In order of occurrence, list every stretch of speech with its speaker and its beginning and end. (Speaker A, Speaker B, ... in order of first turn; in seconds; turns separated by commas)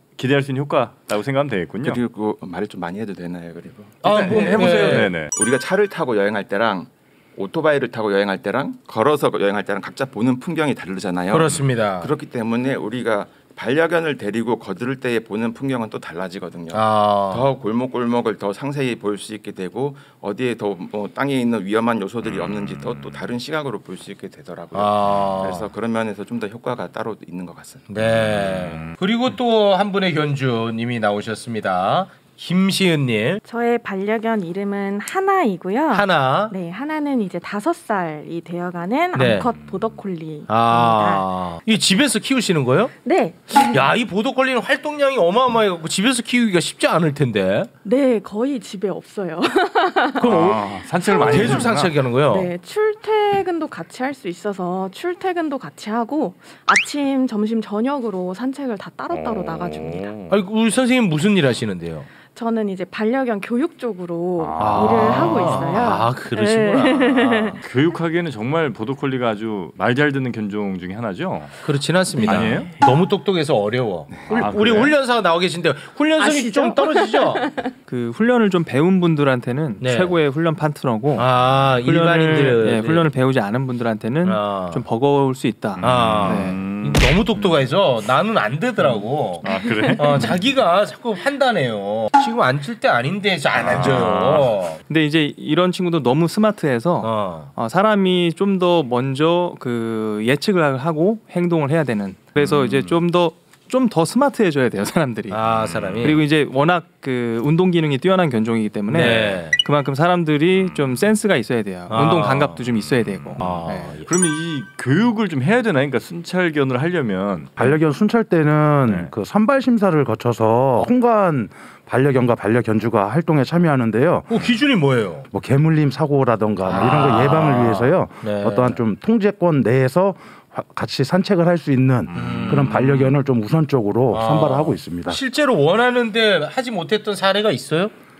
Speaker A: 0.2-2.0, Speaker B: 1.8-28.6, Speaker C: 4.0-5.1, Speaker A: 4.2-5.3, Speaker C: 11.3-12.1, Speaker C: 16.7-17.5, Speaker C: 24.7-25.7, Speaker C: 27.9-33.4, Speaker A: 28.1-29.0, Speaker D: 33.5-41.3, Speaker C: 35.9-36.5, Speaker C: 39.1-39.5, Speaker A: 39.3-40.0, Speaker C: 40.5-42.9, Speaker D: 43.0-43.9, Speaker C: 43.5-47.7, Speaker D: 47.9-60.1, Speaker A: 50.2-52.0, Speaker C: 50.3-52.5, Speaker A: 59.1-60.4, Speaker C: 60.3-62.1, Speaker D: 62.3-67.6, Speaker A: 64.4-65.9, Speaker C: 64.6-67.1, Speaker A: 66.9-72.7, Speaker C: 71.6-77.5, Speaker D: 72.2-72.7, Speaker B: 74.1-74.5, Speaker A: 74.3-75.0, Speaker D: 76.2-77.7, Speaker E: 77.9-86.7, Speaker C: 79.8-80.2, Speaker C: 81.2-83.1, Speaker C: 84.2-84.8, Speaker A: 85.8-87.7, Speaker C: 85.8-94.8, Speaker D: 89.4-90.2, Speaker A: 89.4-90.4, Speaker A: 93.6-94.5, Speaker E: 94.9-105.4, Speaker C: 97.0-97.5, Speaker A: 102.4-103.0, Speaker C: 105.3-106.2, Speaker A: 105.6-106.0, Speaker E: 106.0-114.0, Speaker C: 108.9-109.6, Speaker A: 110.5-111.1, Speaker C: 111.9-112.6, Speaker A: 113.2-117.5, Speaker C: 113.4-114.1, Speaker F: 117.6-124.3, Speaker A: 118.9-119.1, Speaker C: 124.3-125.3, Speaker F: 125.3-135.2, Speaker C: 126.6-128.8, Speaker A: 132.1-133.1, Speaker C: 132.2-132.9, Speaker C: 134.1-137.9